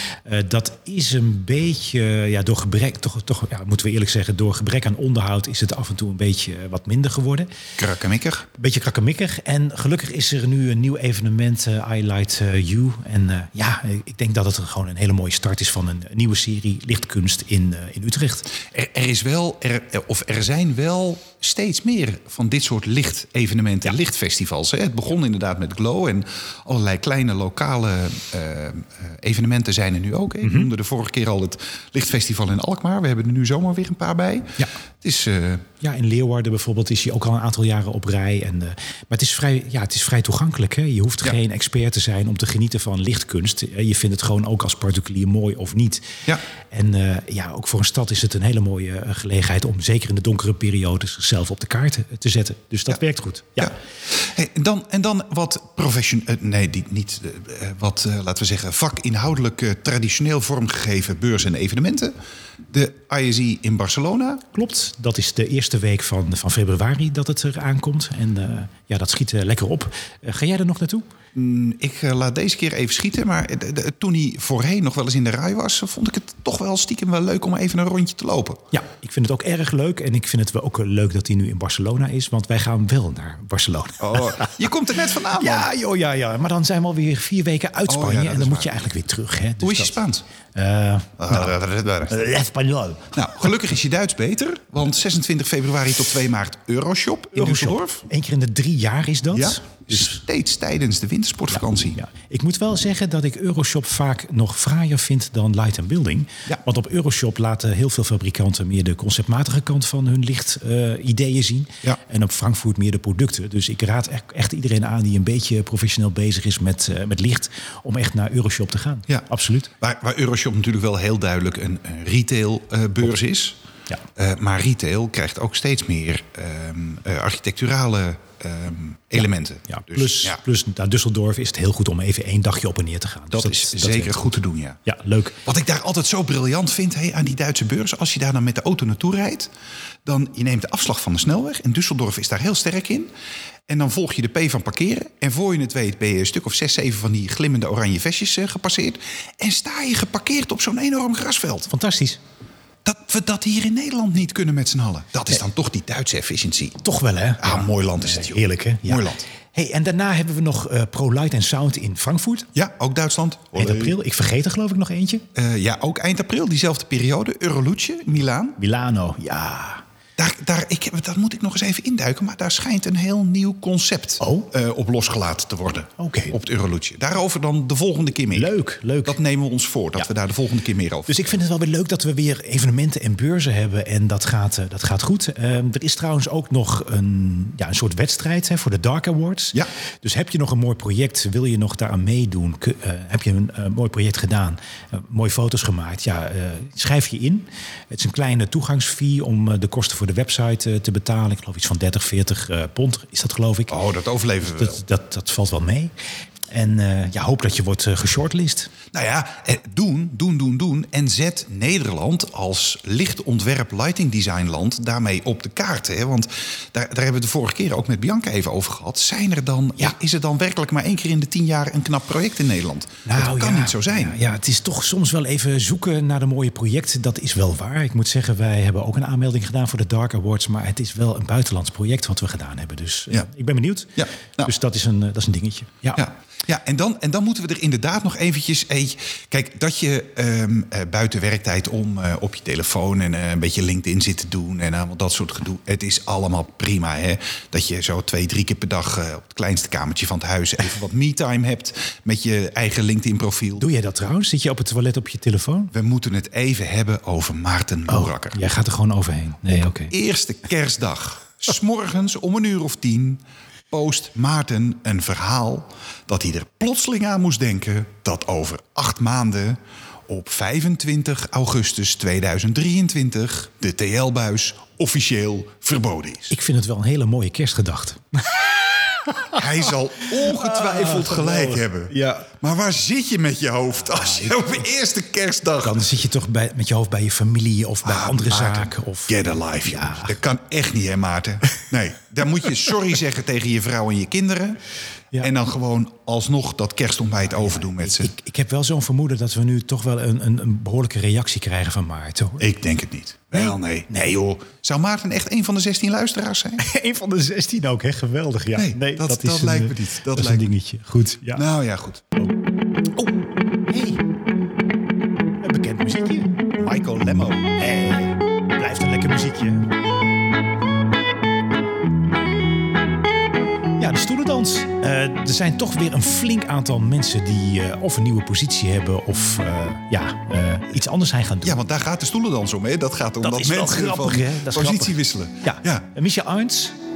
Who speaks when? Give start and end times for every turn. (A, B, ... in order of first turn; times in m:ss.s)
0:00.2-0:07.5 A
0:07.8-0:08.5 B
0:08.5-0:18.5 A
0:18.6-0:35.6 B
0:30.4-0:30.7 A
0:35.8-0:46.1 A
0:46.7-0:53.7 A
0:53.6-1:02.1 B
1:02.7-1:04.4 B
1:04.5-1:11.0 A
1:11.3-1:18.6 B
1:18.7-1:24.6 A
1:24.0-1:25.7 B
1:25.3-1:30.0 A
1:27.9-1:28.7 B
1:29.6-1:30.2 B
1:30.5-1:31.5 A
1:31.2-1:32.2 B
1:32.0-1:33.1 A
1:33.1-1:38.0 B
1:37.3-1:40.2 A
1:39.3-1:42.0 B
1:41.5-1:59.7 A
1:59.8-2:03.6 B
2:04.2-2:10.4 B
2:09.7-2:14.3 A
2:13.3-2:14.8 B
2:14.8-2:15.4 A
2:15.4-2:19.5 B
2:20.0-2:23.1 B
2:23.7-2:31.7 B
2:31.7-2:32.2 A
2:32.8-2:36.8 B
2:36.8-2:42.5 A
2:37.4-2:39.2 B
2:42.5-2:44.0 B
2:43.6-2:45.2 A
2:45.3-2:48.6 B
2:48.6-2:49.8 A
2:50.2-2:58.5 B
2:54.2-2:54.5 A
2:56.0-2:56.3 A
2:58.3-2:59.2 A
2:59.0-3:01.3 B
3:01.1-3:23.7 A
3:23.7-3:24.8 B
3:24.4-3:25.9 A
3:26.5-3:28.7 A
3:28.9-3:44.2 B
3:43.0-3:56.0 A
3:54.0-3:54.5 B
3:56.0-4:13.6 B
4:13.6-4:15.7 A
4:15.7-4:18.4 B
4:17.9-4:19.9 A
4:19.9-4:36.3 B
4:36.3-4:38.4 A
4:39.1-4:39.4 A
4:39.3-4:45.8 B
4:40.1-4:42.3 A
4:43.9-4:44.5 A
4:45.6-4:50.1 A
4:47.8-4:54.6 B
4:55.2-4:58.1 B
4:57.4-5:02.5 A
5:02.4-5:06.6 B
5:03.3-5:04.2 A
5:06.6-5:11.4 A
5:08.5-5:10.5 B
5:11.3-5:12.0 B
5:13.0-5:14.0 A
5:15.4-5:16.4 A
5:16.5-5:17.5 B
5:17.6-5:19.7 A
5:23.8-5:31.6 A
5:31.4-5:35.8 B
5:33.2-5:36.7 A